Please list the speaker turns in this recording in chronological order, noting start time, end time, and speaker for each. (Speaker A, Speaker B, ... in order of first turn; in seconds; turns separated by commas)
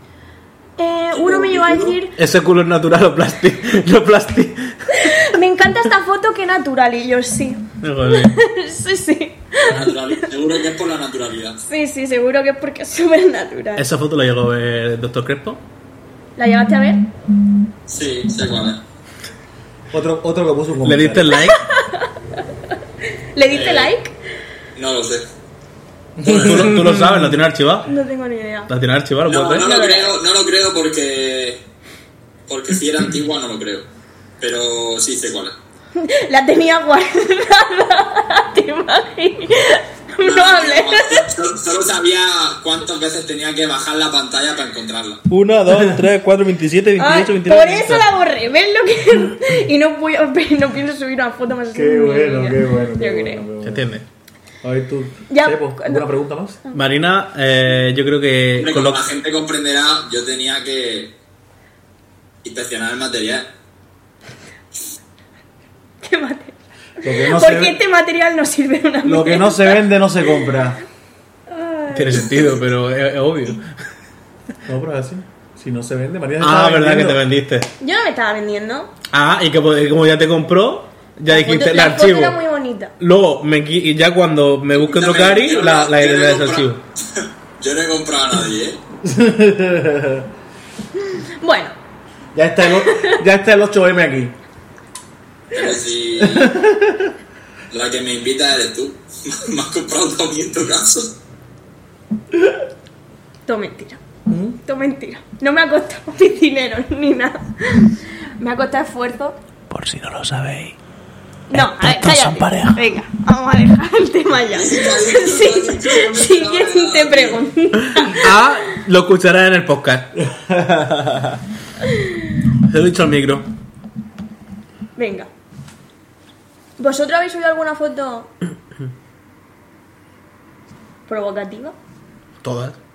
Speaker A: 0.8-2.1, Speaker B: 1.1-2.0, Speaker C: 2.1-5.3, Speaker A: 4.9-10.3, Speaker C: 7.8-8.4, Speaker B: 9.6-11.6, Speaker A: 11.7-13.8, Speaker C: 13.8-15.6, Speaker A: 16.4-17.1, Speaker B: 17.9-18.8, Speaker D: 19.9-21.3, Speaker C: 20.8-21.6, Speaker A: 21.3-22.1, Speaker A: 23.3-24.1, Speaker B: 23.5-23.9, Speaker B: 24.8-25.2, Speaker D: 26.2-27.3, Speaker B: 26.2-26.6, Speaker C: 26.2-27.9, Speaker A: 27.9-28.7, Speaker C: 28.7-29.7, Speaker B: 29.2-31.6, Speaker A: 29.6-30.1, Speaker B: 32.5-33.9, Speaker B: 34.4-35.6, Speaker A: 36.0-41.2, Speaker B: 40.2-45.2, Speaker C: 45.3-48.1, Speaker A: 47.0-53.4, Speaker D: 51.7-53.9, Speaker C: 53.6-54.0, Speaker D: 54.6-56.6, Speaker A: 55.3-56.0, Speaker C: 56.7-59.0, Speaker B: 58.6-61.1, Speaker B: 62.4-63.5, Speaker A: 66.0-66.5, Speaker D: 67.0-67.8, Speaker A: 67.1-69.9, Speaker D: 69.0-70.8, Speaker A: 71.5-72.6, Speaker C: 71.9-73.7, Speaker D: 74.7-77.2, Speaker C: 76.4-77.7, Speaker A: 77.8-78.9, Speaker C: 79.1-82.4, Speaker A: 81.3-82.9, Speaker C: 83.0-86.8, Speaker B: 84.8-88.8, Speaker D: 89.0-90.3, Speaker A: 91.1-91.7, Speaker D: 92.3-94.3, Speaker A: 92.8-93.1, Speaker B: 95.5-96.5, Speaker D: 96.2-97.1, Speaker B: 97.7-101.2, Speaker A: 103.5-104.0, Speaker D: 104.3-104.6, Speaker A: 104.6-109.4, Speaker C: 109.7-110.8, Speaker A: 111.5-118.4, Speaker C: 111.5-112.8, Speaker B: 114.5-117.4, Speaker C: 118.0-120.1, Speaker D: 120.2-121.4, Speaker C: 122.7-123.5, Speaker A: 125.0-125.3, Speaker A: 126.8-128.3, Speaker A: 131.1-131.8, Speaker C: 132.4-132.8